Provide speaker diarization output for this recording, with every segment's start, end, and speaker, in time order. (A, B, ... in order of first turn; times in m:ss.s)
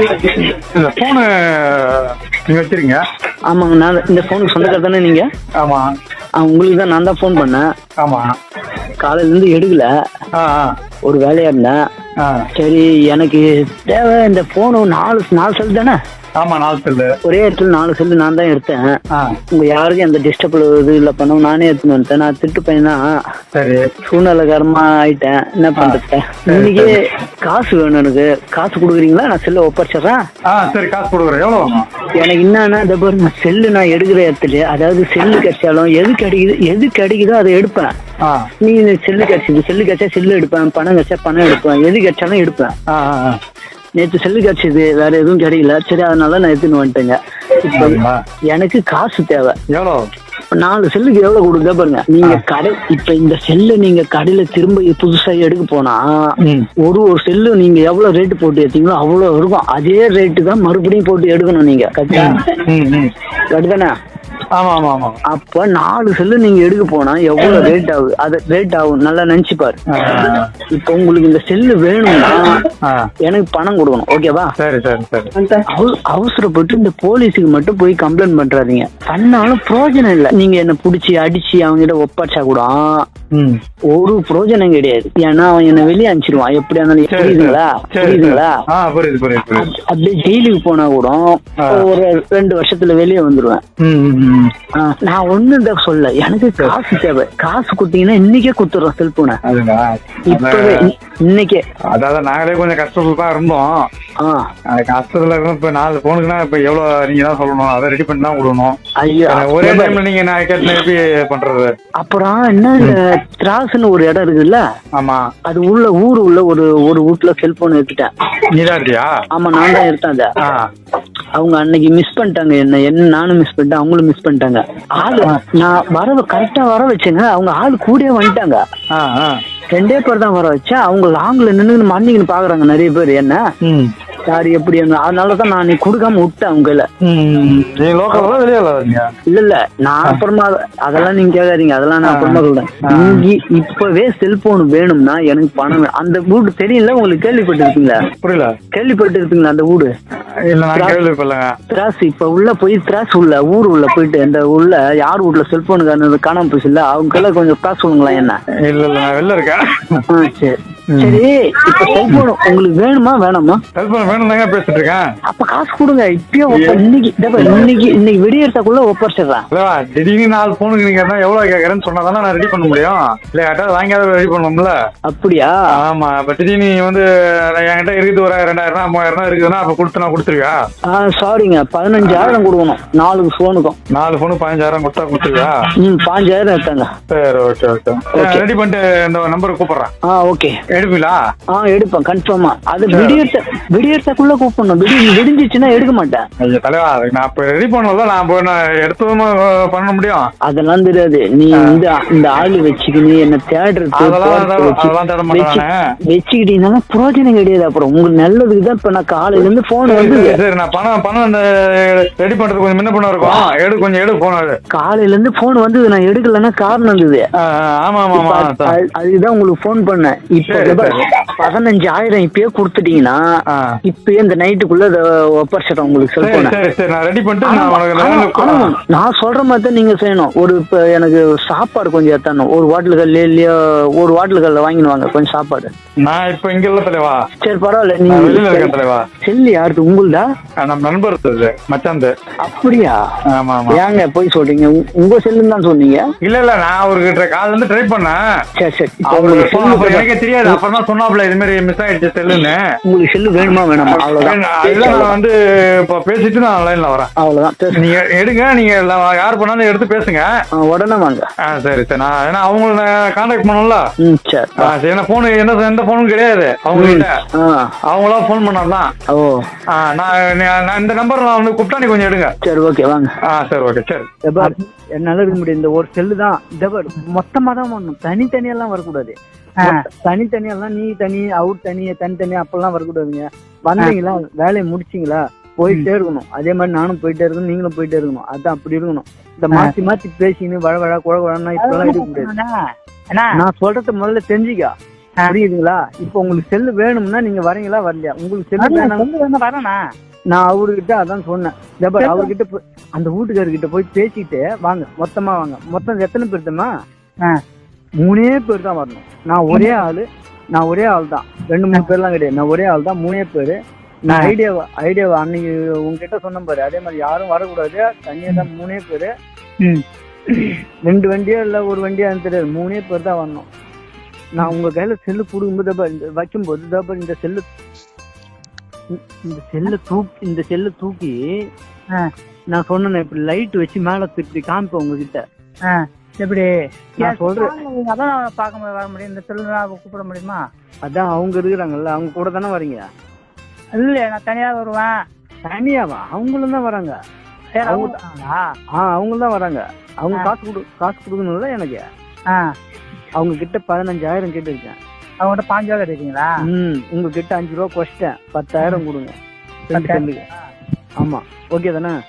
0:00.2-0:03.0 A
0:03.5-0:05.3 B
0:05.6-0:05.9 A
0:06.4-0:07.7 B
0:08.0-0:08.4 A
0:09.0-0:09.9 B
0:10.3-0:10.7 A
0:11.0-0:11.8 B
0:12.2-0:12.5 A
0:12.6-0:16.0 B
0:16.4-0:17.1 A
0:17.2-0:19.0 B
0:19.1-0:19.4 A
0:19.5-0:23.2 B
0:23.5-0:23.9 A
0:24.1-0:30.2 B
0:25.8-0:27.0 A
0:30.5-0:31.9 A
0:32.1-0:37.9 B
0:38.2-0:38.5 A
0:38.6-0:42.8 B
0:42.9-0:43.4 A
0:44.0-0:49.6 B
0:47.7-0:48.2 A
0:49.7-0:50.1 A
0:50.5-1:02.4 B
0:56.4-0:56.7 A
1:02.1-1:03.1 A
1:03.5-1:03.9 B
1:04.5-1:05.2 A
1:05.3-1:09.8 B
1:09.9-1:10.5 A
1:10.7-1:12.6 B
1:12.8-1:13.1 A
1:13.2-1:14.5 B
1:14.6-1:15.3 A
1:15.7-1:23.0 B
1:23.3-1:23.6 A
1:23.9-1:28.6 B
1:27.1-1:29.7 A
1:29.6-1:33.6 B
1:31.6-1:31.9 A
1:33.8-1:34.5 A
1:34.7-1:39.4 B
1:39.4-1:40.8 A
1:40.3-1:41.6 B
1:41.9-1:43.9 A
1:44.2-1:44.5 B
1:44.7-1:48.8 A
1:49.0-1:50.0 B
1:49.3-1:51.7 A
1:52.0-1:54.6 B
1:54.9-1:55.3 A
1:55.5-1:58.1 B
1:58.5-1:59.1 A
1:59.3-2:00.3 B
2:00.4-2:00.7 A
2:01.4-2:08.6 B
2:08.9-2:09.4 A
2:09.7-2:13.4 B
2:13.6-2:13.9 A
2:14.3-2:16.9 B
2:17.0-2:19.1 A
2:19.3-2:28.0 B
2:22.0-2:23.3 A
2:28.2-2:28.6 A
2:28.7-2:29.9 B
2:30.5-2:31.6 A
2:31.7-2:38.4 B
2:38.6-2:40.0 A
2:40.1-2:43.6 B
2:40.9-2:41.2 A
2:43.8-2:45.0 A
2:45.3-2:49.5 B
2:46.5-2:46.8 A
2:47.4-2:47.7 A
2:49.5-2:54.8 A
2:55.1-2:55.5 B
2:55.8-3:00.6 A
3:00.9-3:03.8 B
3:03.9-3:05.7 A
3:05.8-3:06.9 B
3:07.1-3:09.9 A
3:08.1-3:08.5 B
3:10.0-3:10.6 B
3:10.7-3:11.2 A
3:11.5-3:16.2 B
3:12.9-3:13.2 A
3:16.4-3:20.3 A
3:20.4-3:30.4 B
3:24.0-3:25.8 A
3:29.9-3:34.6 A
3:34.7-3:37.2 B
3:37.4-3:38.8 A
3:38.1-3:43.2 B
3:40.5-3:41.0 A
3:43.9-3:46.6 B
3:46.2-3:48.8 A
3:47.4-3:55.7 B
3:56.0-3:57.2 A
3:57.4-4:00.2 B
3:58.1-3:59.1 A
4:00.6-4:02.1 A
4:02.4-4:03.0 B
4:03.3-4:03.8 A
4:03.7-4:06.0 B
4:06.2-4:08.2 A
4:08.6-4:10.6 B
4:09.1-4:12.6 A
4:12.9-4:15.1 B
4:14.0-4:17.1 A
4:17.2-4:17.9 B
4:17.8-4:20.3 A
4:20.5-4:21.2 B
4:21.4-4:23.8 A
4:24.0-4:24.7 B
4:24.6-4:27.2 A
4:26.8-4:27.7 B
4:27.9-4:28.9 A
4:29.1-4:29.4 B
4:29.7-4:32.3 A
4:32.4-4:33.1 B
4:33.3-4:34.1 A
4:34.3-4:52.3 B
4:51.6-4:52.6 C
4:53.4-4:54.7 B
4:55.3-4:59.1 B
4:58.6-4:59.8 C
5:00.3-5:06.7 B
5:02.0-5:02.3 C
5:08.0-5:13.6 B
5:09.5-5:09.8 C
5:14.1-5:19.1 B
5:19.6-5:20.6 C
5:20.8-5:23.5 B
5:24.3-5:27.5 B
5:28.9-5:31.2 B
5:32.5-5:35.2 B
5:35.6-5:40.4 C
5:37.0-5:37.6 B
5:40.8-5:42.9 B
5:43.7-5:44.9 C
5:45.4-5:47.0 B
5:47.6-5:48.5 C
5:47.6-5:48.0 B
5:48.7-5:51.8 B
5:52.3-5:52.6 C
5:53.2-5:54.8 B
5:55.2-5:56.3 C
5:56.4-5:59.1 B
5:59.7-6:00.2 B
5:59.7-6:00.0 C
6:01.0-6:02.0 B